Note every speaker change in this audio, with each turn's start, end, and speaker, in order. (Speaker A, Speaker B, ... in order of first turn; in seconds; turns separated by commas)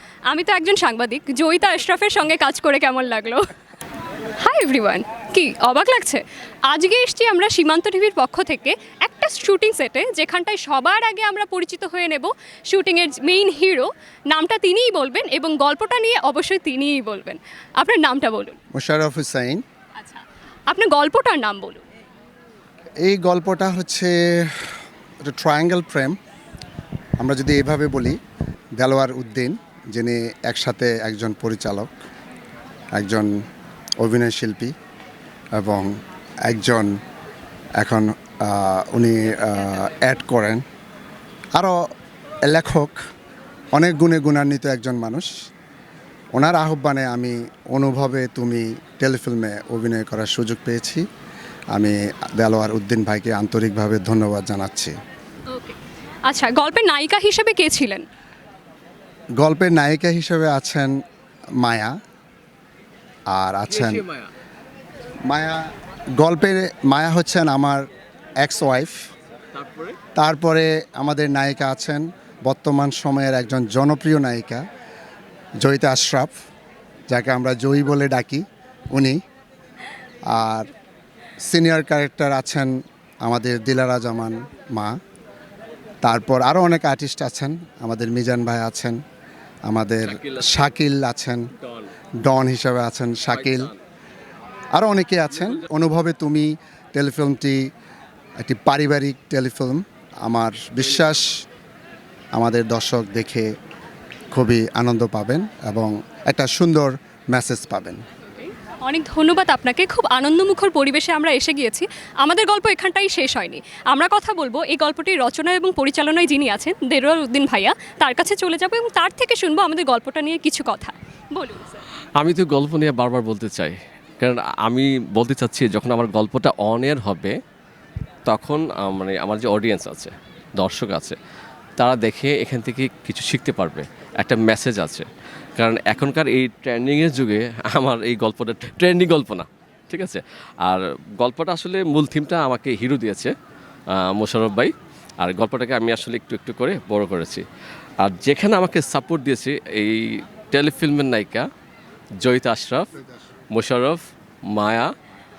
Speaker A: 0.3-3.4, Speaker A: 4.4-18.6, Speaker B: 18.7-19.6, Speaker A: 20.0-21.8, Speaker B: 23.0-24.7, Speaker B: 25.2-26.1, Speaker B: 27.2-28.2, Speaker B: 28.8-31.9, Speaker B: 32.9-33.4, Speaker B: 34.0-34.7, Speaker B: 35.5-35.9, Speaker B: 36.4-36.9, Speaker B: 37.8-40.6, Speaker B: 41.5-41.8, Speaker B: 42.5-43.0, Speaker B: 43.7-45.3, Speaker B: 46.3-51.0, Speaker B: 51.7-54.9, Speaker A: 55.5-55.8, Speaker A: 56.3-58.0, Speaker B: 59.4-60.9, Speaker B: 61.6-61.9, Speaker B: 63.3-64.0, Speaker C: 63.7-64.3, Speaker B: 65.3-67.8, Speaker B: 68.4-69.0, Speaker C: 69.5-70.0, Speaker B: 70.2-74.6, Speaker B: 75.6-76.3, Speaker B: 77.1-79.2, Speaker B: 80.3-80.7, Speaker B: 81.4-85.0, Speaker B: 86.0-89.0, Speaker B: 89.7-91.5, Speaker C: 90.0-90.7, Speaker C: 91.6-91.9, Speaker B: 92.2-93.7, Speaker C: 93.3-93.8, Speaker B: 94.7-97.7, Speaker C: 95.3-95.6, Speaker B: 98.4-101.4, Speaker B: 102.3-103.5, Speaker B: 104.3-108.0, Speaker A: 108.8-121.8, Speaker C: 122.2-127.3, Speaker C: 128.3-131.2, Speaker C: 131.8-135.1, Speaker C: 135.6-143.3, Speaker C: 143.9-147.4, Speaker C: 148.0-151.4, Speaker C: 152.2-152.9, Speaker C: 153.5-154.0, Speaker C: 154.5-154.9